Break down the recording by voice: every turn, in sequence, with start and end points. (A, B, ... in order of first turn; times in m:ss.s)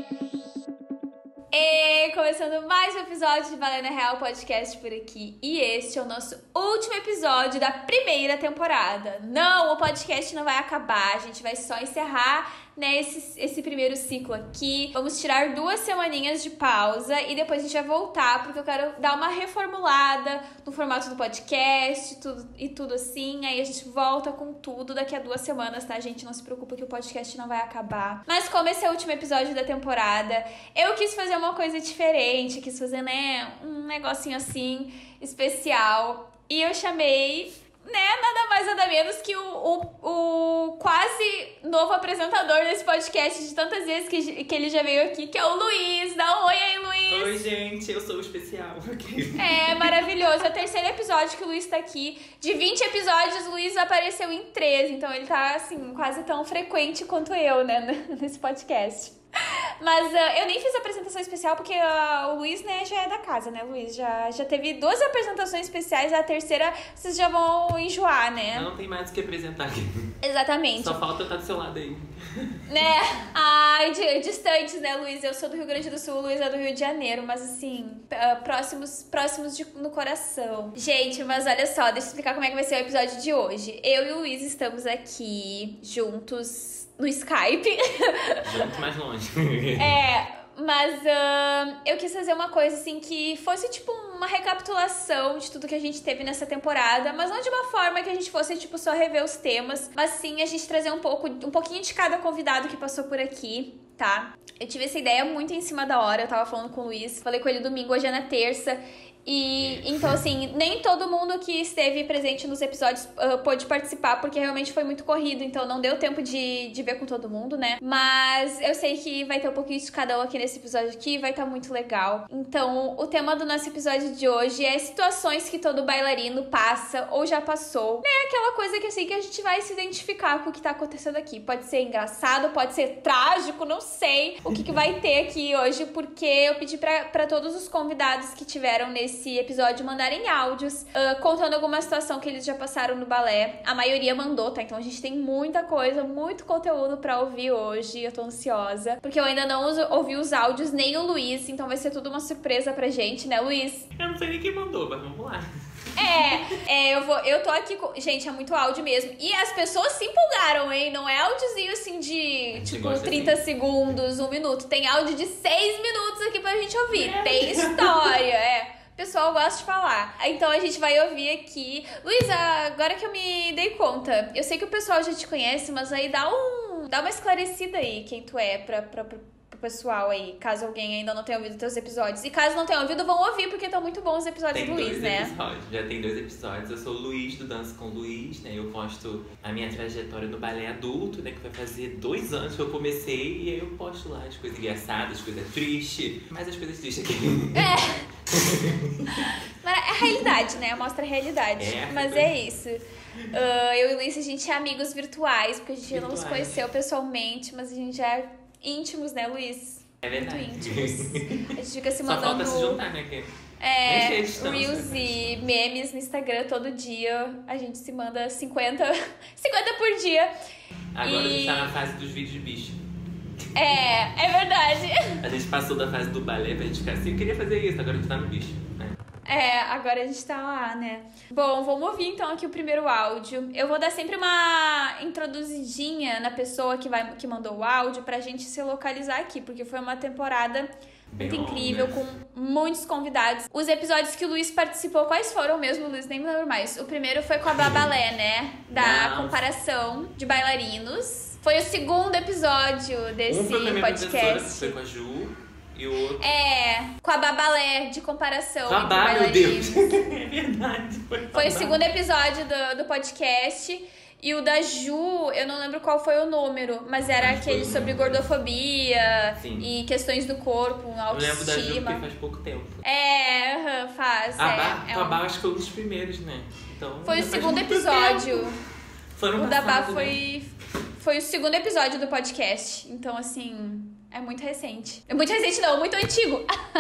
0:01.5-0:47.3 A
0:47.1-0:49.9 B
0:49.4-0:59.2 A
0:59.8-1:08.7 A
1:08.5-1:10.0 B
1:10.2-1:11.0 A
1:10.8-1:12.5 B
1:12.7-1:28.4 A
1:28.4-1:29.9 B
1:29.8-2:33.9 A
2:34.0-2:35.5 B
2:36.0-3:05.3 A
2:42.6-2:43.3 B
2:46.9-2:48.1 B
3:04.5-3:17.7 B
3:17.5-3:18.0 A
3:18.3-3:19.0 B
3:19.6-3:32.8 A
3:21.6-3:22.3 B
3:25.9-3:26.6 B
3:30.0-3:31.5 B
3:32.0-3:33.3 B
3:33.6-3:40.3 A
3:33.9-3:35.3 B
3:41.0-3:42.8 B
3:41.0-3:41.7 A
3:43.6-3:45.0 A
3:45.2-3:49.0 B
3:49.3-4:14.7 A
4:01.1-4:01.9 B
4:07.5-4:07.9 B
4:08.7-4:09.4 B
4:13.3-4:16.2 B
4:16.2-4:20.0 A
4:18.7-4:21.8 B
4:21.3-4:32.0 A
4:27.2-4:28.2 B
4:29.4-4:29.7 B
4:31.1-4:32.8 B
4:32.8-4:35.2 A
4:34.4-4:38.5 B
4:37.0-4:38.6 A
4:39.2-4:40.2 B
4:39.4-4:46.5 A